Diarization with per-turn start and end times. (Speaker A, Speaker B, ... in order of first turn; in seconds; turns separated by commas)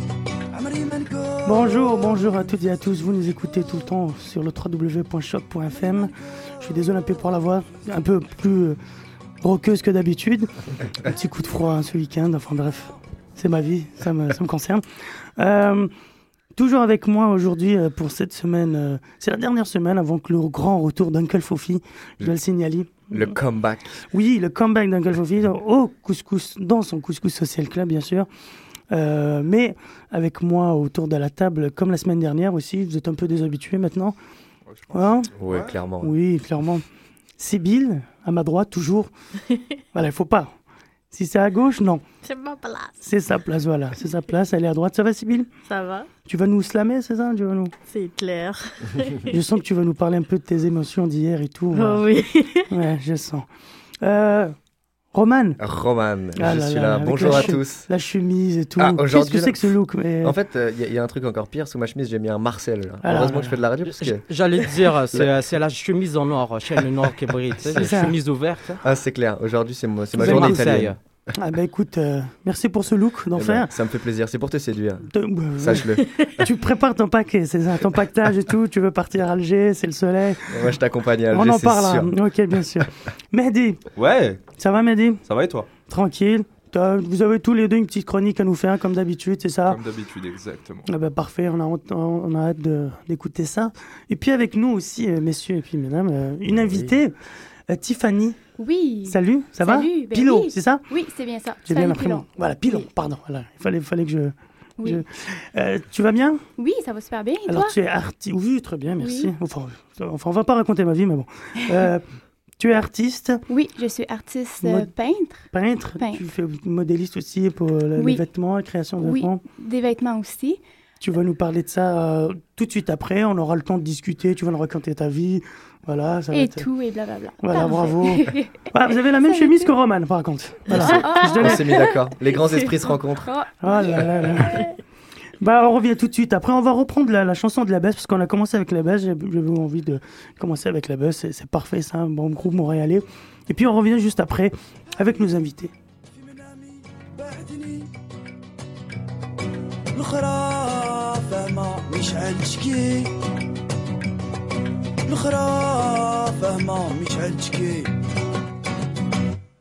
Speaker A: 0.5-2.0, Speaker B: 1.4-8.8, Speaker B: 9.4-14.8, Speaker B: 15.4-15.9, Speaker B: 16.5-23.3, Speaker C: 23.1-24.0, Speaker B: 24.1-28.3, Speaker B: 28.9-34.1, Speaker D: 34.7-35.8, Speaker B: 34.9-35.3, Speaker C: 35.3-36.1, Speaker B: 36.0-36.8, Speaker B: 37.4-39.1, Speaker B: 39.9-40.5, Speaker B: 41.1-42.0, Speaker E: 42.2-43.0, Speaker B: 43.0-45.5, Speaker E: 45.6-46.1, Speaker B: 46.2-47.7, Speaker E: 47.9-49.4, Speaker B: 49.3-52.0, Speaker E: 51.7-52.7, Speaker B: 52.7-53.5, Speaker B: 54.0-54.5, Speaker B: 55.1-55.6, Speaker C: 55.6-57.9, Speaker B: 56.3-60.4, Speaker C: 58.8-59.6, Speaker C: 60.2-64.2, Speaker B: 63.0-63.5, Speaker F: 63.9-68.8, Speaker B: 67.7-68.2, Speaker C: 68.8-71.0, Speaker B: 70.2-70.8, Speaker F: 70.2-71.0, Speaker B: 71.4-73.7, Speaker C: 73.3-75.1, Speaker B: 75.0-80.7, Speaker C: 75.6-76.1, Speaker C: 80.5-82.1, Speaker B: 81.3-83.8, Speaker D: 84.0-84.5, Speaker B: 84.5-85.2, Speaker D: 85.3-85.7, Speaker B: 85.8-89.8, Speaker D: 89.7-90.9, Speaker B: 90.8-97.1, Speaker B: 97.7-98.4, Speaker G: 98.6-102.9, Speaker B: 99.0-100.8, Speaker B: 101.7-106.4, Speaker G: 106.6-107.8, Speaker B: 107.5-112.0, Speaker G: 109.0-109.3, Speaker B: 112.6-113.4, Speaker G: 113.5-116.2, Speaker B: 114.6-114.9, Speaker B: 115.5-119.4, Speaker G: 118.0-118.2, Speaker G: 119.0-120.6, Speaker B: 121.0-126.7, Speaker G: 126.3-129.7, Speaker B: 127.4-131.7, Speaker G: 130.8-132.0, Speaker C: 131.1-133.3, Speaker G: 133.2-134.4, Speaker B: 133.6-134.7, Speaker B: 135.4-145.7, Speaker A: 146.1-147.9, Speaker A: 149.9-153.1, Speaker A: 155.1-157.9